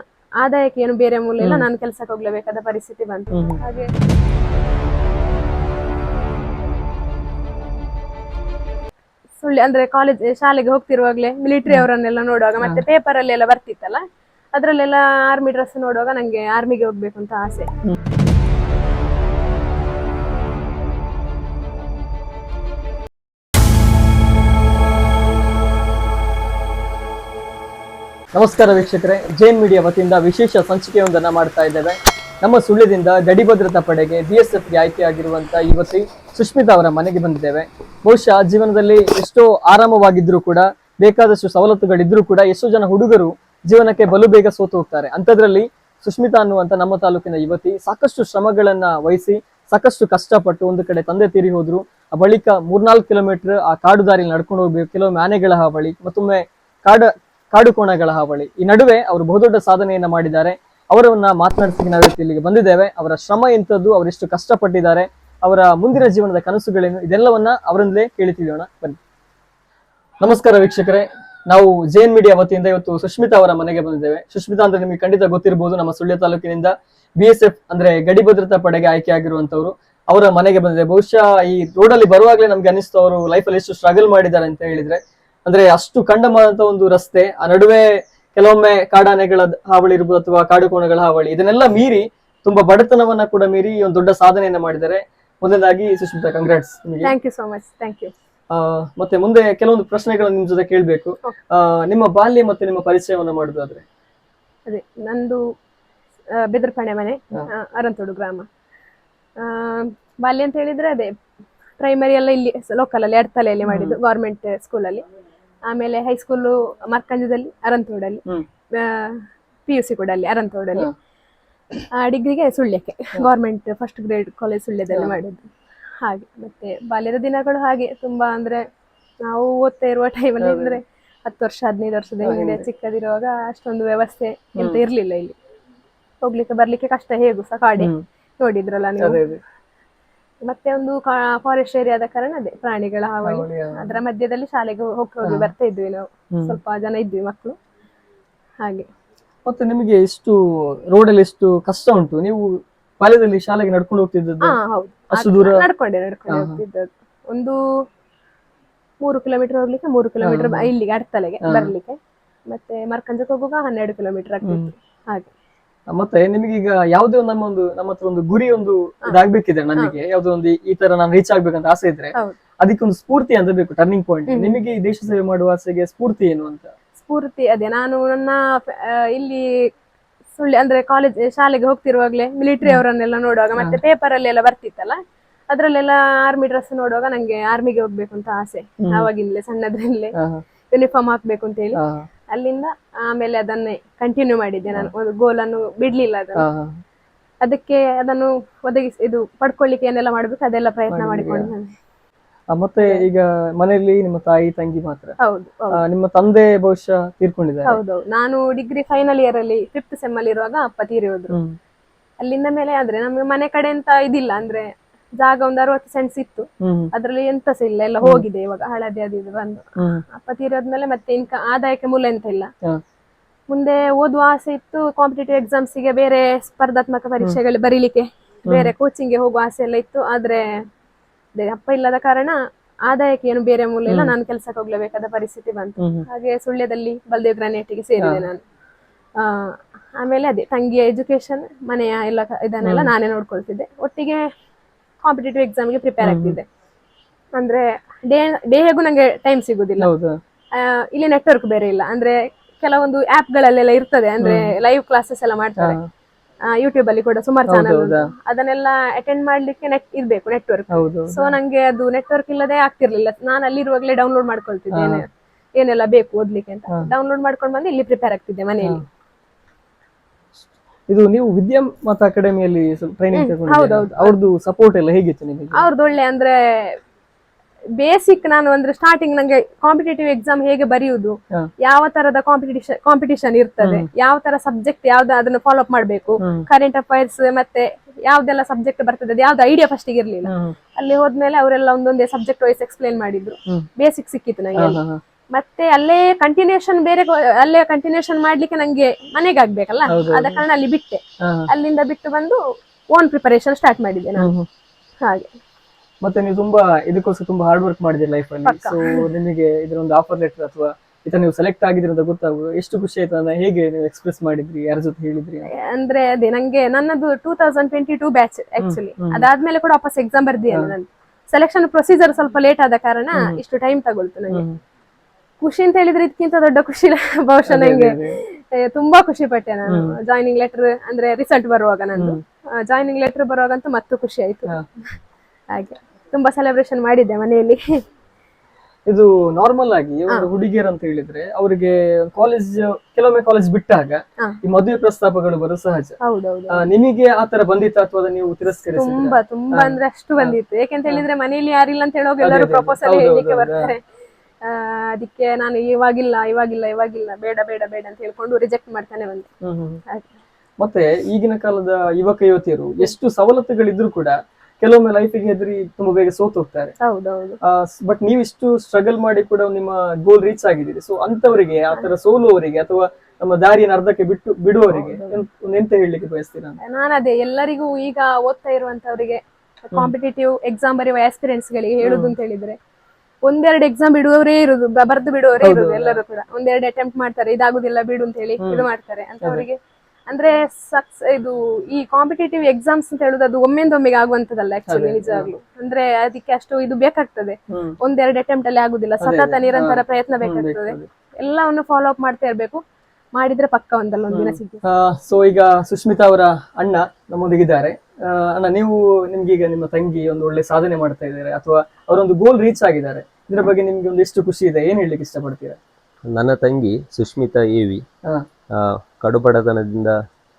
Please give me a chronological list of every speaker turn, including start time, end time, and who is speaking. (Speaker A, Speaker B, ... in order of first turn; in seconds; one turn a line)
Speaker A: 0.4-3.9
Speaker B: 3.3-3.6
Speaker A: 9.4-17.7
Speaker B: 28.3-69.0
Speaker B: 70.2-97.1
Speaker A: 97.0-98.1
Speaker B: 98.5-103.8
Speaker A: 104.7-105.4
Speaker A: 106.3-108.4
Speaker A: 109.4-111.1
Speaker A: 111.8-115.0
Speaker B: 113.7-114.0
Speaker A: 115.7-118.2
Speaker A: 118.7-120.9
Speaker A: 122.0-125.4
Speaker A: 126.0-128.6
Speaker A: 129.3-135.3
Speaker B: 130.4-130.8
Speaker B: 132.2-132.6
Speaker A: 136.2-139.2
Speaker B: 137.8-138.0
Speaker B: 139.0-139.4
Speaker A: 140.4-147.5
Speaker B: 143.2-143.9
Speaker B: 145.3-145.5
Speaker B: 149.4-150.4
Speaker B: 150.9-154.6
Speaker A: 154.4-157.6
Speaker B: 155.1-155.7
Speaker B: 156.3-156.6
Speaker A: 159.0-162.0
Speaker B: 160.2-160.7
Speaker A: 162.5-165.3
Speaker B: 164.4-164.7
Speaker B: 165.9-176.7
Speaker A: 174.3-174.6
Speaker A: 177.0-179.4
Speaker A: 180.3-185.0
Speaker A: 185.5-190.1
Speaker B: 190.2-190.4
Speaker A: 190.7-191.8
Speaker B: 191.8-192.1
Speaker A: 192.3-196.4
Speaker B: 196.4-196.7
Speaker A: 197.4-201.7
Speaker B: 200.9-201.5
Speaker B: 202.5-205.2
Speaker A: 205.2-205.8
Speaker B: 205.8-207.8
Speaker A: 207.7-211.3
Speaker A: 212.2-214.7
Speaker A: 215.2-222.5
Speaker B: 216.6-216.9
Speaker A: 223.5-230.4
Speaker B: 228.5-228.7
Speaker A: 231.3-238.4
Speaker B: 233.9-234.1
Speaker B: 235.8-236.1
Speaker B: 238.0-238.3
Speaker A: 239.2-244.2
Speaker B: 242.6-242.9
Speaker A: 245.0-246.4
Speaker B: 246.0-246.4
Speaker A: 247.4-249.9
Speaker B: 249.8-250.2
Speaker A: 250.5-255.8
Speaker B: 254.2-254.5
Speaker B: 255.6-255.8
Speaker A: 256.5-265.1
Speaker B: 257.5-258.1
Speaker B: 260.7-261.3
Speaker B: 264.7-265.0
Speaker A: 265.6-268.8
Speaker B: 270.9-275.7
Speaker A: 273.1-274.1
Speaker A: 275.6-276.8
Speaker A: 277.8-294.8
Speaker B: 290.2-290.5
Speaker B: 294.6-295.0
Speaker A: 295.3-302.4
Speaker B: 299.9-300.4
Speaker B: 301.2-301.5
Speaker A: 302.9-304.3
Speaker B: 304.2-304.4
Speaker A: 305.0-305.3
Speaker B: 306.0-315.5
Speaker A: 308.4-309.0
Speaker A: 315.5-324.4
Speaker B: 318.6-319.2
Speaker B: 324.3-324.6
Speaker A: 325.4-334.9
Speaker B: 327.5-328.2
Speaker B: 329.7-329.9
Speaker A: 335.5-337.6
Speaker B: 338.9-345.9
Speaker A: 346.0-346.6
Speaker B: 346.5-350.3
Speaker A: 348.8-353.8
Speaker B: 352.2-353.7
Speaker A: 354.4-359.3
Speaker B: 359.4-359.8
Speaker B: 360.6-366.7
Speaker A: 366.8-367.4
Speaker B: 367.4-376.6
Speaker A: 374.7-375.2
Speaker A: 376.6-382.6
Speaker B: 381.8-382.1
Speaker A: 383.2-389.6
Speaker B: 385.4-386.0
Speaker B: 388.4-388.6
Speaker B: 389.2-389.4
Speaker A: 390.1-402.6
Speaker B: 394.7-395.3
Speaker B: 397.5-397.8
Speaker B: 399.0-400.9
Speaker A: 403.1-404.6
Speaker B: 404.1-415.6
Speaker C: 416.1-417.8
Speaker C: 418.6-419.9